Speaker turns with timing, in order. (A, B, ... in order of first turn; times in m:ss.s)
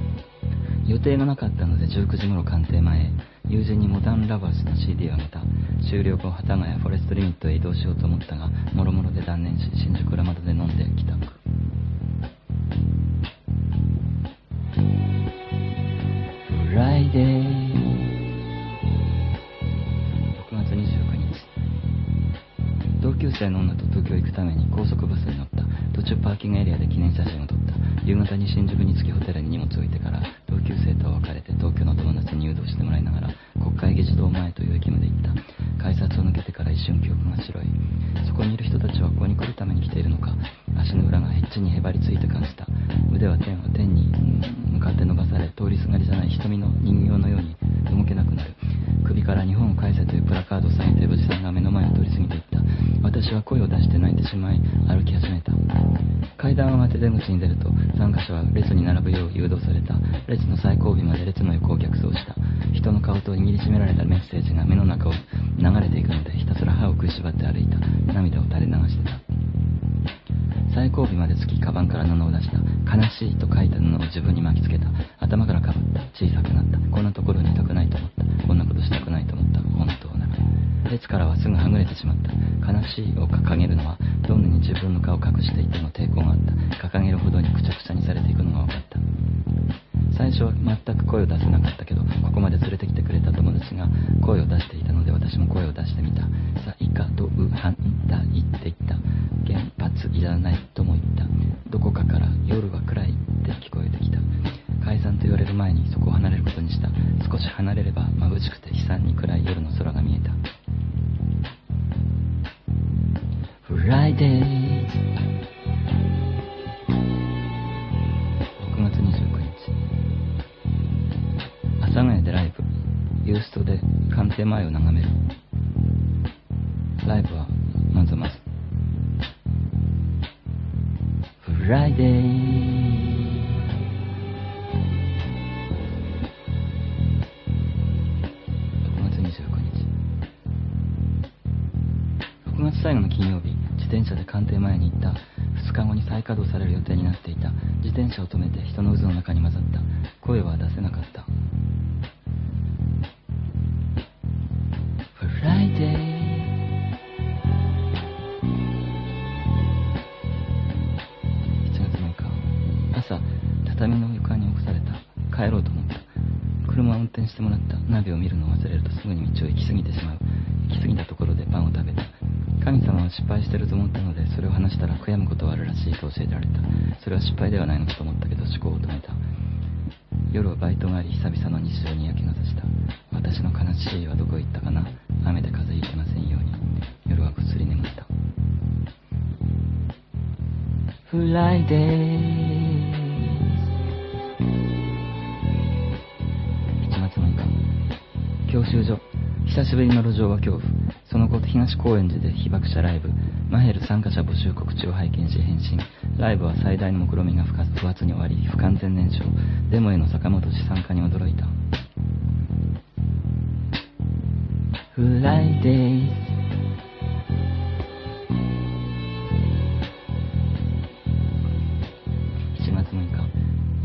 0:00.8-0:11.4 A
0:16.5-0:18.1 A
0:20.3-0:21.5 A
0:23.0-0:55.6 A
0:56.4-1:09.2 A
1:10.7-1:29.0 A
1:30.1-1:50.4 A
1:53.6-1:55.0 A
1:58.6-1:59.8 A
2:01.8-2:02.7 A
2:03.2-2:05.2 A
2:07.0-2:08.4 A
2:11.4-2:13.1 A
2:18.8-2:19.9 A
2:22.4-2:31.3 A
2:35.2-2:36.6 A
2:41.6-2:46.1 A
2:46.6-2:59.2 A
3:00.3-3:08.1 A
3:11.1-3:13.0 A
3:16.8-3:17.6 A
3:18.5-3:31.5 A
3:34.9-3:36.3 A
3:42.5-3:43.3 A